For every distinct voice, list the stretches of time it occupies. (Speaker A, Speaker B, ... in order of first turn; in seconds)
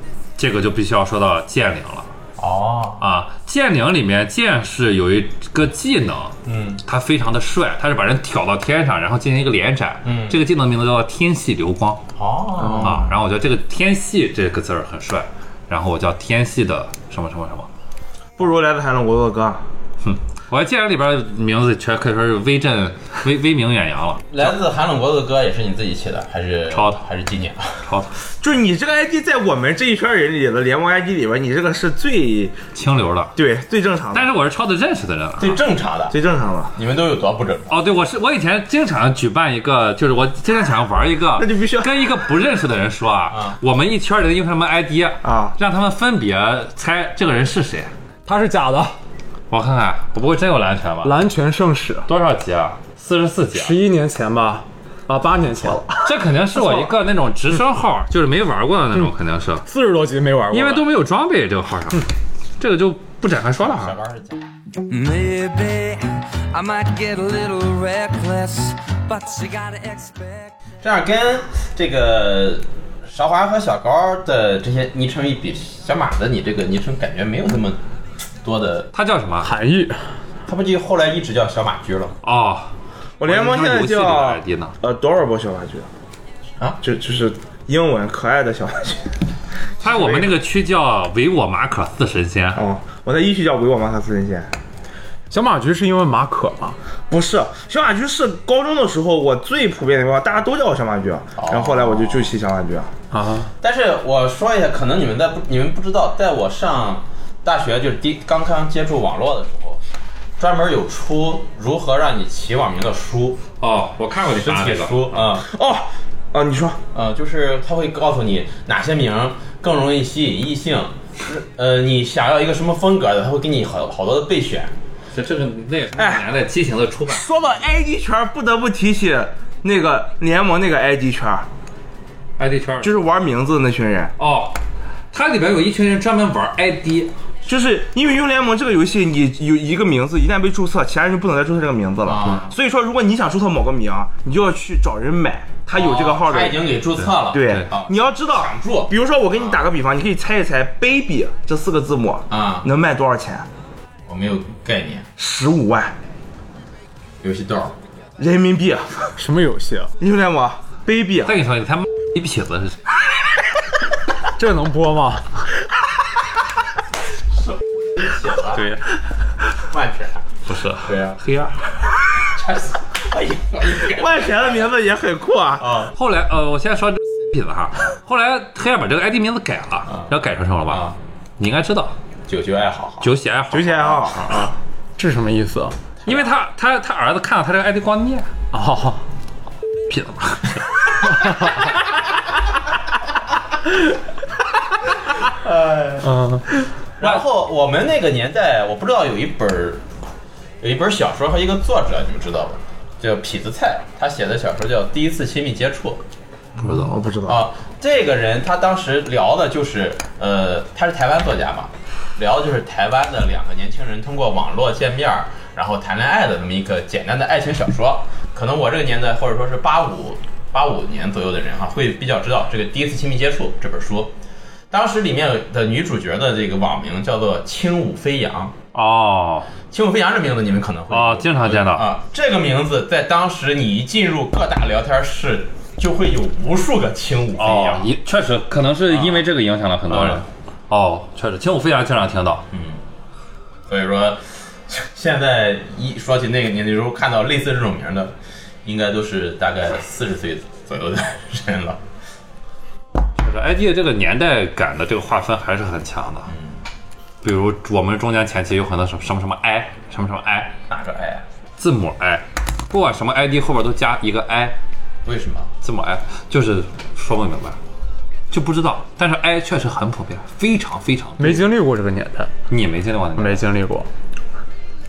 Speaker A: 0.4-2.1, 3.0-12.0, 12.7-17.7, 20.0-24.2, 26.7-27.0, 27.8-28.1, 32.7-33.4, 34.1-35.6, 37.7-47.9, 49.5-51.1, 52.1-53.7, 55.9-59.6, 60.5-62.1, 62.6-63.9, 78.9-79.5, 82.2-82.7, 83.2-84.7, 89.8-92.6, 113.6-115.2, 125.1-127.3, 132.4-132.9, 134.2-134.6, 135.1-137.1, 161.2-162.9, 170.5-171.6, 175.9-181.9, 183.0-184.3, 186.1-188.3, 189.9-190.7, 206.6-206.9, 228.7-229.5, 230.9-231.9, 237.4-242.4, 253.2-256.3, 257.2-260.6, 261.6-264.6, 265.6-267.6, 268.3-271.4, 272.5-273.4
Speaker B: 2.4-3.0, 6.5-6.8, 10.0-10.4, 12.2-13.1, 24.3-27.8, 35.4-36.1, 36.7-37.8, 43.3-43.6, 63.6-64.4, 70.8-77.8, 78.4-78.9, 80.5-82.1, 101.4-102.3, 103.6-109.8, 110.4-113.4, 114.2-115.4, 116.9-124.7, 142.1-142.5, 145.7-149.6, 152.3-152.7, 154.1-155.1, 157.2-157.7, 168.0-168.7, 169.7-170.2, 170.8-171.2, 172.3-174.6, 175.6-175.9, 180.7-180.9, 182.3-183.1, 184.2-184.5, 195.3-196.1, 197.0-199.8, 200.6-206.0, 207.2-224.1, 224.7-228.6, 229.7-237.9, 238.9-239.2, 239.9-240.2, 242.5-242.8, 243.7-248.1, 248.6-251.8, 260.7-261.2, 265.0-265.5
Speaker C: 12.6-13.1, 18.4-19.6, 28.4-32.6, 33.4-34.3, 36.1-36.7, 41.4-42.0, 45.2-45.5, 83.2-85.9, 86.8-89.2, 89.8-90.2, 92.5-94.5, 97.1-102.9, 115.4-116.8, 125.9-126.2, 127.1-131.5, 132.8-134.1, 137.4-146.7, 147.3-153.5, 155.2-155.9, 158.2-159.1, 160.0-161.4, 173.8-175.7, 183.5-184.5, 206.6-207.4
Speaker D: 48.2-48.9, 51.0-52.1, 53.5-56.9, 59.6-60.9, 79.4-80.1, 95.3-96.8, 103.1-103.5, 159.2-159.9, 164.3-165.4, 168.6-168.8, 185.0-185.8, 188.5-189.0, 196.0-196.5, 271.2-272.3, 273.2-273.9
Speaker E: 64.8-70.5